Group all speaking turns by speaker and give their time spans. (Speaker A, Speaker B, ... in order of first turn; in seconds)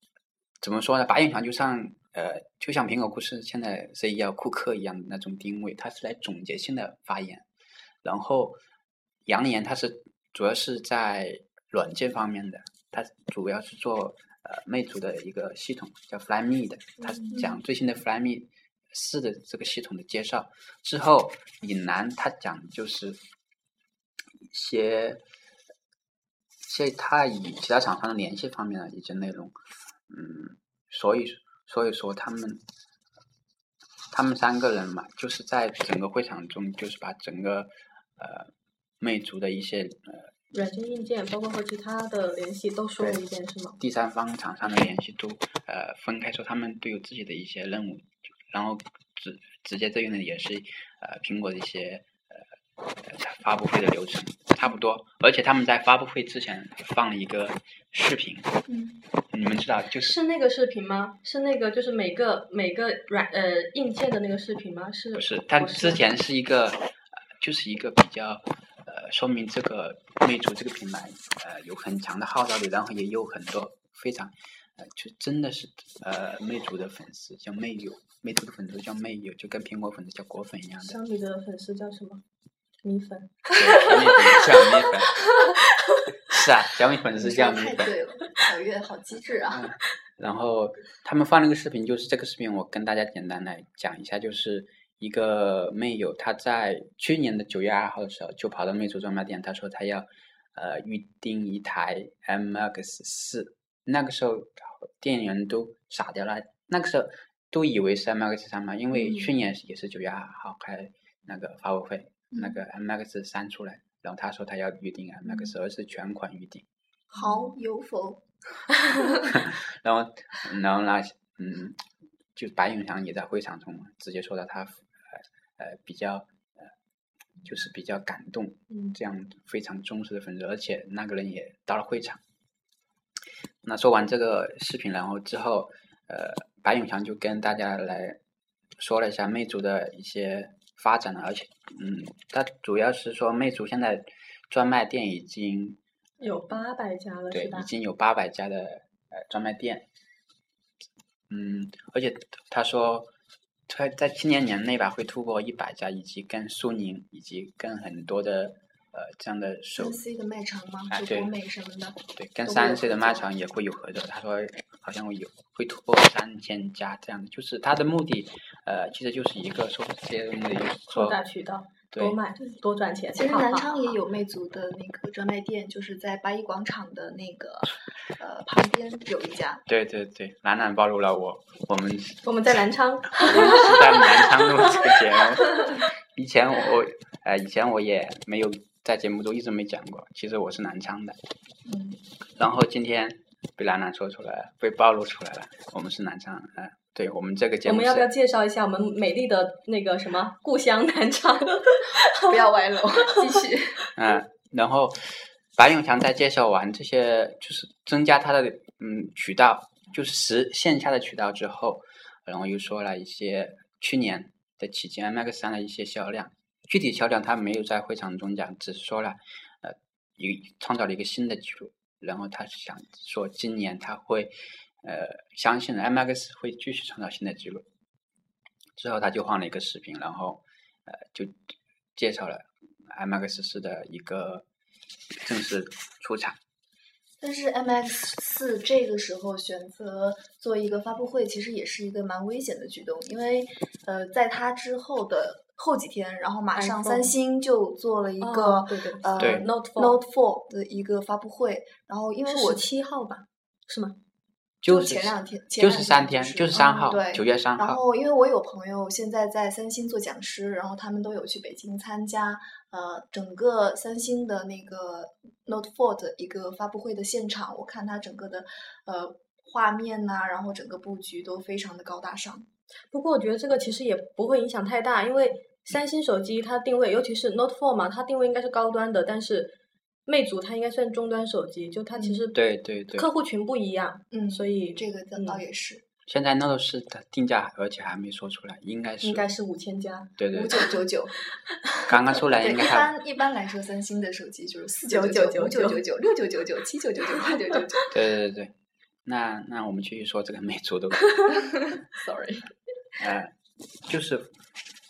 Speaker A: 0.6-7.5, 8.0-8.6, 9.3-23.2, 24.4-25.2, 26.6-29.6, 30.1-32.6, 34.1-40.3, 43.8-52.4, 53.0-58.5, 59.3-60.2, 65.2-81.0, 83.5-85.2, 86.3-88.0, 89.5-116.7, 119.2-121.8, 122.3-126.7, 127.4-132.2, 133.6-138.2, 138.8-145.8, 147.3-149.9, 151.3-153.1, 153.7-160.0, 160.9-161.3, 162.2-171.2, 171.9-172.2, 179.7-182.2, 183.1-191.2, 192.4-198.1, 204.0-227.7, 228.8-234.4, 235.2-236.4, 249.2-249.5, 254.6-257.8, 282.3-283.1, 286.1-289.3, 290.2-290.6, 291.9-292.9, 297.9-298.5, 299.1-301.4, 303.0-303.3, 303.9-304.3
Speaker B: 17.0-17.3, 40.5-43.8, 60.0-66.0, 80.8-82.2, 82.8-86.1, 146.2-147.7, 170.9-174.0, 182.2-185.0, 197.7-202.4, 246.5-247.1, 248.2-250.0, 252.3-254.0, 256.6-256.9, 272.9-279.6, 280.1-282.4, 282.9-285.4, 289.0-290.1, 294.9-295.8
Speaker C: 58.7-59.0, 87.2-89.7, 112.3-112.6, 117.1-118.2, 118.9-119.3, 159.8-163.3, 173.2-179.6, 191.7-192.0, 202.2-203.8, 237.2-252.7, 254.7-272.5, 284.1-285.8, 290.3-291.2, 292.2-297.9, 301.7-302.5